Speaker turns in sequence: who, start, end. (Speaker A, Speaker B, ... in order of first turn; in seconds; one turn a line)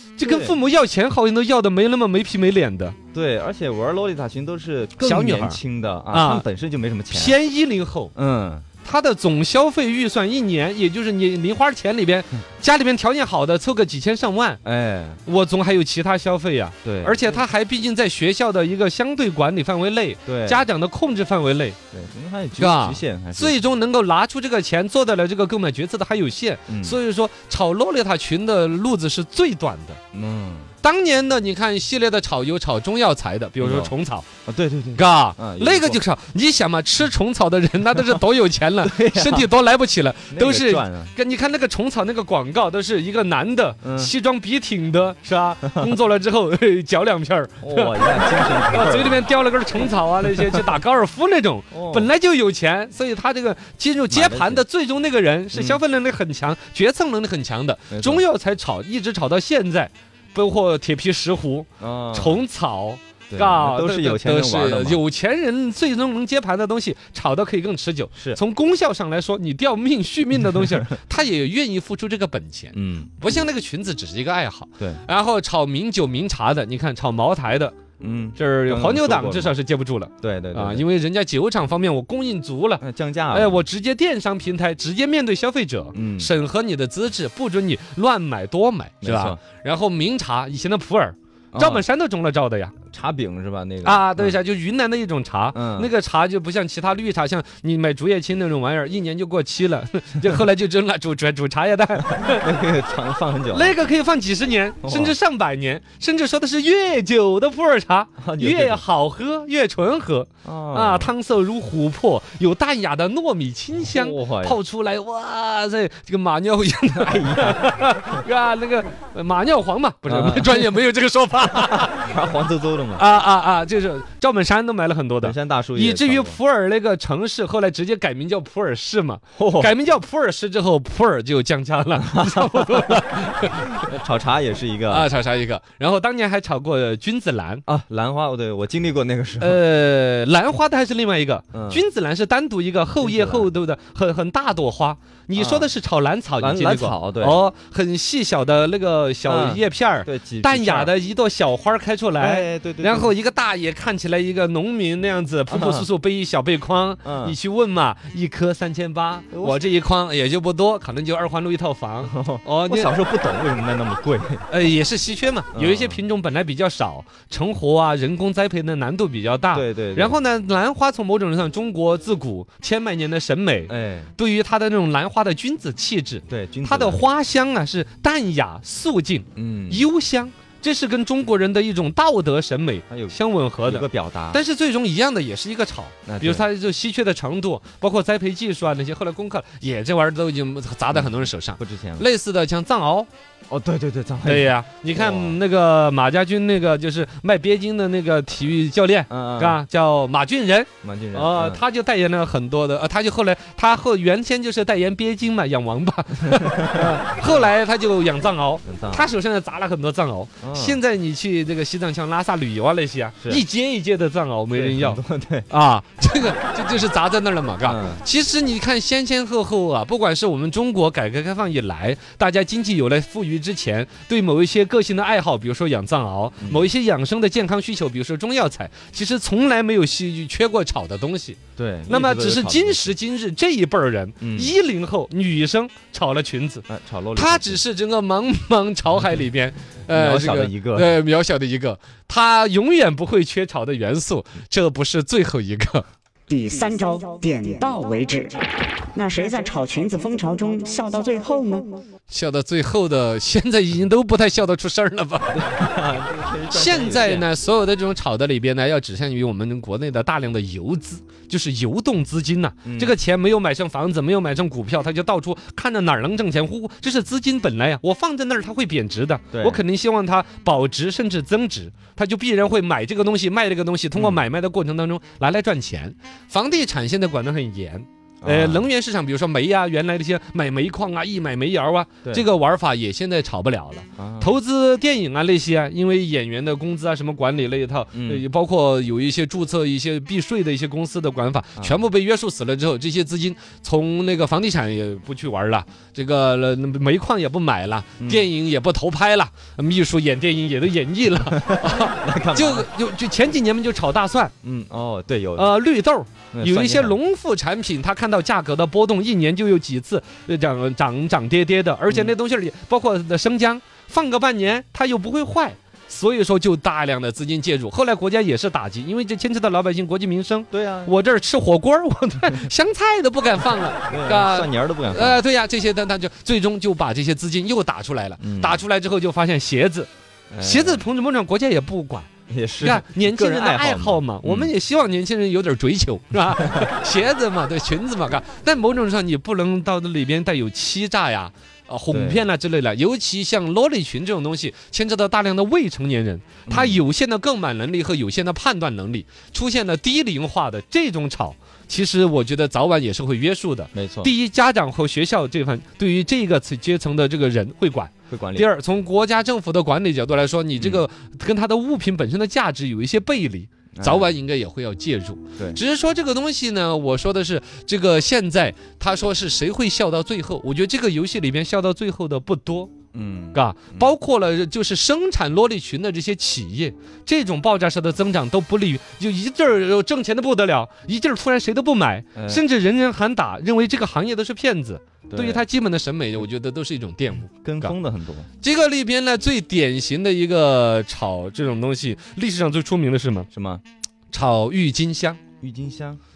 Speaker A: 0.2-3.0
Speaker B: 0.2-0.6
Speaker B: 3.1-7.4
Speaker A: 5.0-5.6
Speaker A: 6.1-6.4
Speaker A: 7.1-8.1
Speaker B: 8.1-8.7
Speaker A: 8.8-14.6
Speaker B: 14.6-15.2
Speaker A: 15.2-21.8
Speaker B: 16.8-17.5
Speaker B: 20.2-20.6
Speaker B: 21.9-23.6
Speaker A: 22.6-30.0
Speaker B: 26.7-27.0
Speaker B: 30.1-30.7
Speaker A: 30.8-34.3
Speaker B: 33.6-33.9
Speaker B: 34.5-36.0
Speaker A: 34.9-77.7
Speaker B: 38.8-39.5
Speaker B: 40.3-41.1
Speaker B: 43.8-44.1
Speaker B: 45.7-45.9
Speaker B: 47.6-49.2
Speaker B: 51.7-52.1
Speaker B: 54.1-54.6
Speaker B: 55.5-55.8
Speaker B: 57.9-58.2
Speaker B: 61.8-62.4
Speaker B: 63.3-65.0
Speaker B: 68.1-68.4
Speaker B: 72.7-73.2
Speaker B: 78.0-79.5
Speaker A: 78.3-92.7
Speaker B: 80.2-80.8
Speaker B: 82.8-83.6
Speaker B: 85.9-86.3
Speaker B: 89.0-89.4
Speaker B: 91.5-91.8
Speaker B: 92.9-94.4
Speaker A: 93.8-102.5
Speaker B: 95.5-95.9
Speaker B: 102.0-103.9
Speaker A: 103.5-122.1
Speaker B: 104.8-105.2
Speaker B: 108.2-108.8
Speaker B: 110.4-111.1
Speaker B: 113.8-114.6
Speaker B: 116.9-117.8
Speaker B: 120.0-120.7
Speaker B: 121.5-123.0
Speaker A: 122.9-133.9
Speaker B: 125.2-126.4
Speaker B: 129.4-129.7
Speaker B: 131.9-133.1
Speaker B: 133.8-135.1
Speaker A: 134.9-137.6
Speaker B: 137.7-139.6
Speaker A: 139.4-162.9
Speaker B: 141.5-141.8
Speaker B: 143.0-143.5
Speaker B: 145.3-145.7
Speaker B: 146.4-147.4
Speaker B: 149.2-150.9
Speaker B: 152.2-153.1
Speaker B: 155.5-155.9
Speaker B: 157.0-157.4
Speaker B: 159.3-159.7
Speaker B: 162.1-164.4
Speaker A: 164.5-193.1
Speaker B: 165.5-166.0
Speaker B: 169.5-170.2
Speaker B: 173.7-174.1
Speaker B: 176.3-177.1
Speaker B: 179.3-179.9
Speaker B: 182.9-184.4
Speaker B: 186.1-186.4
Speaker B: 190.9-192.1
Speaker B: 193.5-195.4
Speaker A: 194.2-245.8
Speaker B: 199.1-199.6
Speaker B: 200.8-201.6
Speaker B: 206.3-207.5
Speaker B: 208.6-209.1
Speaker B: 210.4-210.8
Speaker B: 214.5-215.5
Speaker B: 217.6-218.0
Speaker B: 226.4-226.7
Speaker B: 231.6-232.9
Speaker B: 234.2-234.5
Speaker B: 236.7-237.6
Speaker B: 239.9-240.9
Speaker C: 246.3-251.8
Speaker A: 252.1-255.6
Speaker B: 255.3-257.3
Speaker A: 256.5-304.3
Speaker B: 262.6-262.9
Speaker B: 269.3-269.6
Speaker B: 273.9-274.2
Speaker B: 278.2-278.7
Speaker B: 284.0-284.4
Speaker B: 287.9-288.2
Speaker B: 298.0-298.3
Speaker B: 301.1-302.7
Speaker B: 304.4-305.5
Speaker A: 305.4-329.9
Speaker B: 306.3-307.0
Speaker B: 311.9-312.1
Speaker B: 320.5-320.9
Speaker B: 323.9-325.2
Speaker B: 328.2-328.6
Speaker B: 330.3-330.9
Speaker A: 330.4-332.1
Speaker B: 332.3-334.5
Speaker A: 332.6-372.7
Speaker B: 336.3-336.7
Speaker B: 341.9-342.2
Speaker B: 346.5-346.8
Speaker B: 353.7-354.1
Speaker B: 358.1-358.5
Speaker B: 360.6-360.8
Speaker B: 363.7-364.1
Speaker B: 372.9-373.9
Speaker A: 373.3-387.7
Speaker B: 382.1-382.4
Speaker B: 385.1-385.4
Speaker B: 387.4-388.3
Speaker A: 388.4-393.3
Speaker B: 393.3-393.6
Speaker A: 394.1-395.2
Speaker B: 395.4-396.0